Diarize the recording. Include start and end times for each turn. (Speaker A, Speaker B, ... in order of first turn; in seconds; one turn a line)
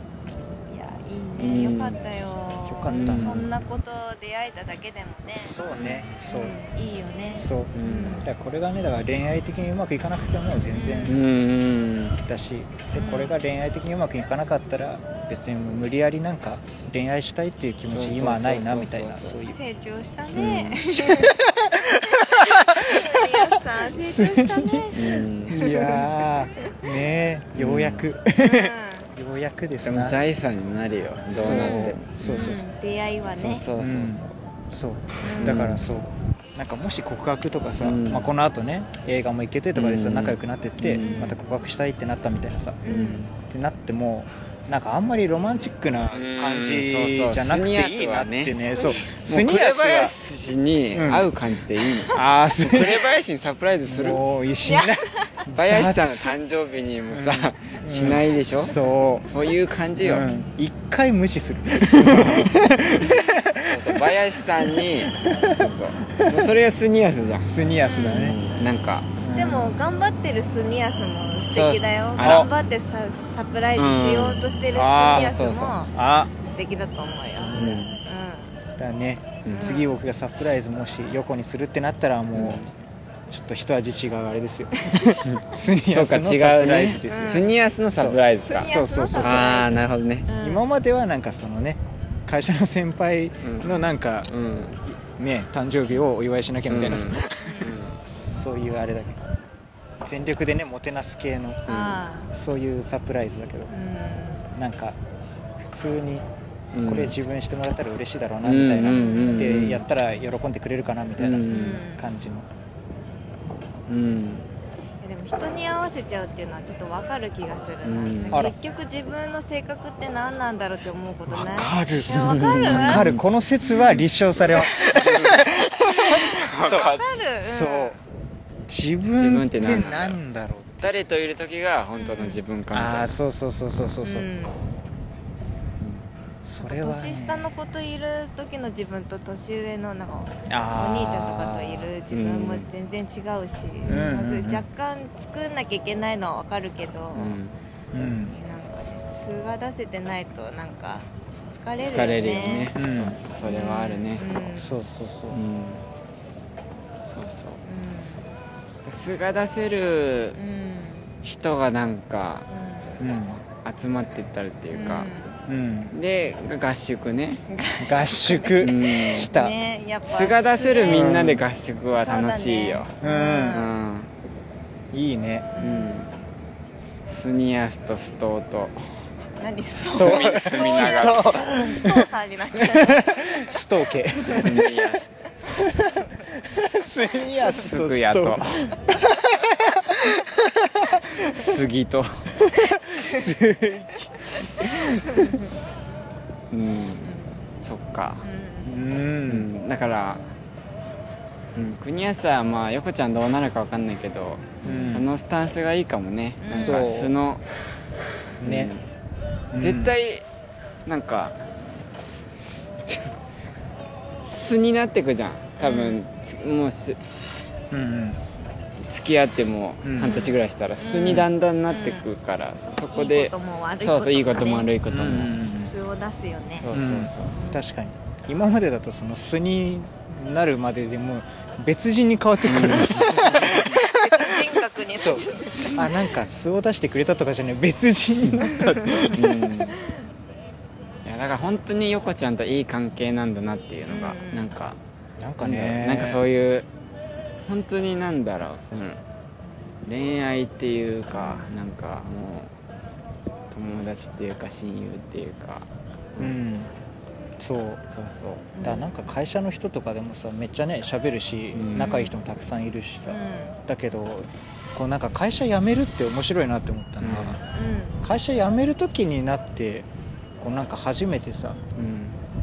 Speaker A: 0.7-8.3
Speaker B: 1.4-2.0
Speaker C: 2.6-3.6
Speaker B: 2.9-3.5
Speaker C: 5.3-6.6
Speaker B: 5.7-6.1
Speaker C: 7.3-11.2
Speaker B: 7.7-8.2
Speaker A: 10.7-11.2
Speaker B: 11.1-12.2
Speaker C: 12.2-19.6
Speaker A: 12.9-13.3
Speaker B: 17.9-19.4
Speaker A: 19.5-21.3
Speaker B: 20.3-20.8
Speaker C: 20.8-24.9
Speaker A: 22.1-26.8
Speaker B: 24.9-25.8
Speaker C: 25.5-30.2
Speaker B: 27.6-28.1
Speaker A: 28.4-29.1
Speaker B: 29.8-32.6
Speaker C: 31.3-32.6
Speaker A: 31.4-33.6
Speaker B: 33.3-34.4
Speaker C: 33.8-42.8
Speaker A: 35.2-35.7
Speaker B: 35.4-35.8
Speaker B: 37.8-38.3
Speaker B: 39.7-41.3
Speaker A: 41.0-41.3
Speaker A: 42.8-43.2
Speaker B: 42.9-43.3
Speaker C: 43.4-50.1
Speaker B: 46.1-48.6
Speaker A: 48.7-49.0
Speaker B: 49.1-54.2
Speaker C: 50.9-51.3
Speaker C: 52.1-53.1
Speaker C: 53.9-56.4
Speaker A: 54.6-55.4
Speaker B: 55.5-60.3
Speaker C: 57.1-59.2
Speaker C: 60.0-66.5
Speaker B: 62.0-62.6
Speaker B: 63.6-69.1
Speaker C: 67.4-68.4
Speaker A: 67.8-68.3
Speaker C: 69.2-69.8
Speaker A: 69.3-78.5
Speaker B: 71.5-72.5
Speaker C: 72.2-72.5
Speaker B: 73.8-75.8
Speaker C: 74.7-75.4
Speaker C: 75.9-76.3
Speaker C: 77.2-77.8
Speaker B: 77.5-78.0
Speaker C: 78.8-82.6
Speaker B: 79.4-79.7
Speaker A: 79.5-79.9
Speaker B: 82.3-82.7
Speaker C: 83.3-89.6
Speaker B: 85.2-90.3
Speaker A: 87.0-87.5
Speaker A: 88.4-90.6
Speaker C: 90.4-94.3
Speaker B: 93.4-94.8
Speaker C: 94.8-99.3
Speaker B: 96.7-98.0
Speaker A: 97.4-97.7
Speaker C: 100.0-101.7
Speaker A: 101.7-102.3
Speaker B: 101.7-102.0
Speaker C: 102.3-103.7
Speaker A: 103.7-104.5
Speaker C: 104.5-105.0
Speaker C: 105.6-106.2
Speaker B: 106.7-107.1
Speaker C: 106.8-112.5
Speaker B: 108.4-109.8
Speaker A: 109.0-109.5
Speaker B: 111.2-111.8
Speaker A: 111.5-112.0
Speaker B: 113.9-114.5
Speaker A: 115.0-123.1
Speaker B: 117.8-118.5
Speaker C: 121.3-128.0
Speaker B: 122.1-127.0
Speaker A: 126.6-128.0
Speaker C: 128.7-130.9
Speaker B: 129.1-130.2
Speaker B: 130.8-133.2
Speaker A: 131.9-132.4
Speaker C: 132.7-134.3
Speaker A: 134.0-134.6
Speaker C: 136.4-137.5
Speaker A: 136.6-147.4
Speaker C: 140.5-141.9
Speaker B: 142.1-142.7
Speaker C: 143.8-144.7
Speaker B: 147.1-147.5
Speaker C: 147.9-148.4
Speaker A: 148.0-152.7
Speaker B: 151.8-154.5
Speaker C: 152.7-153.2
Speaker A: 153.4-154.7
Speaker C: 154.5-155.4
Speaker B: 155.3-155.8
Speaker B: 157.1-157.6
Speaker A: 157.6-158.3
Speaker B: 158.8-160.4
Speaker A: 160.3-161.1
Speaker B: 161.2-162.4
Speaker A: 162.5-163.0
Speaker C: 163.0-163.4
Speaker B: 163.4-165.1
Speaker A: 164.7-165.3
Speaker C: 165.5-165.9
Speaker B: 165.9-167.4
Speaker A: 167.5-171.2
Speaker C: 167.8-169.5
Speaker B: 168.6-169.3
Speaker B: 170.1-172.9
Speaker C: 170.8-171.4
Speaker A: 172.0-173.7
Speaker C: 173.0-173.6
Speaker B: 173.5-174.1
Speaker C: 174.9-175.5
Speaker A: 175.6-176.0
Speaker B: 175.6-176.1
Speaker B: 177.1-178.9
Speaker A: 179.4-183.5
Speaker C: 179.9-184.7
Speaker B: 179.9-181.3
Speaker B: 184.3-185.7
Speaker C: 185.6-191.5
Speaker B: 187.5-188.7
Speaker B: 191.3-192.3
Speaker C: 192.3-195.4
Speaker A: 192.7-193.3
Speaker A: 195.1-195.4
Speaker B: 196.5-197.1
Speaker A: 197.0-197.4
Speaker B: 197.6-198.2
Speaker A: 198.2-198.7
Speaker C: 198.6-199.5
Speaker B: 199.3-200.2
Speaker B: 201.5-207.4
Speaker C: 204.6-205.1
Speaker A: 204.6-204.9
Speaker A: 206.4-206.9
Speaker C: 206.5-207.1
Speaker C: 208.4-208.7
Speaker B: 208.4-208.8
Speaker C: 209.5-209.9
Speaker B: 209.6-210.2
Speaker B: 210.8-211.4
Speaker B: 211.9-213.1
Speaker B: 214.2-217.0
Speaker A: 215.6-216.0
Speaker C: 217.7-218.2
Speaker B: 218.9-225.4
Speaker C: 219.8-220.2
Speaker A: 220.0-222.1
Speaker A: 222.9-224.7
Speaker C: 224.9-225.7
Speaker A: 225.6-226.7
Speaker B: 226.6-227.5
Speaker C: 226.7-239.3
Speaker B: 232.4-233.7
Speaker A: 232.8-236.1
Speaker A: 238.4-239.1
Speaker B: 239.1-239.8
Speaker B: 241.0-244.8
Speaker A: 243.9-244.5
Speaker C: 245.2-246.2
Speaker B: 245.4-246.7
Speaker B: 247.4-249.0
Speaker B: 249.8-252.5
Speaker A: 251.1-251.5
Speaker B: 253.5-256.3
Speaker C: 256.2-256.7
Speaker C: 257.4-257.8
Speaker B: 257.9-258.5
Speaker A: 258.5-258.9
Speaker C: 258.6-267.4
Speaker B: 261.5-262.0
Speaker A: 261.8-262.1
Speaker A: 263.1-263.6
Speaker B: 267.0-267.4
Speaker A: 267.5-268.0
Speaker C: 268.0-269.9
Speaker C: 270.4-271.6
Speaker B: 271.8-272.2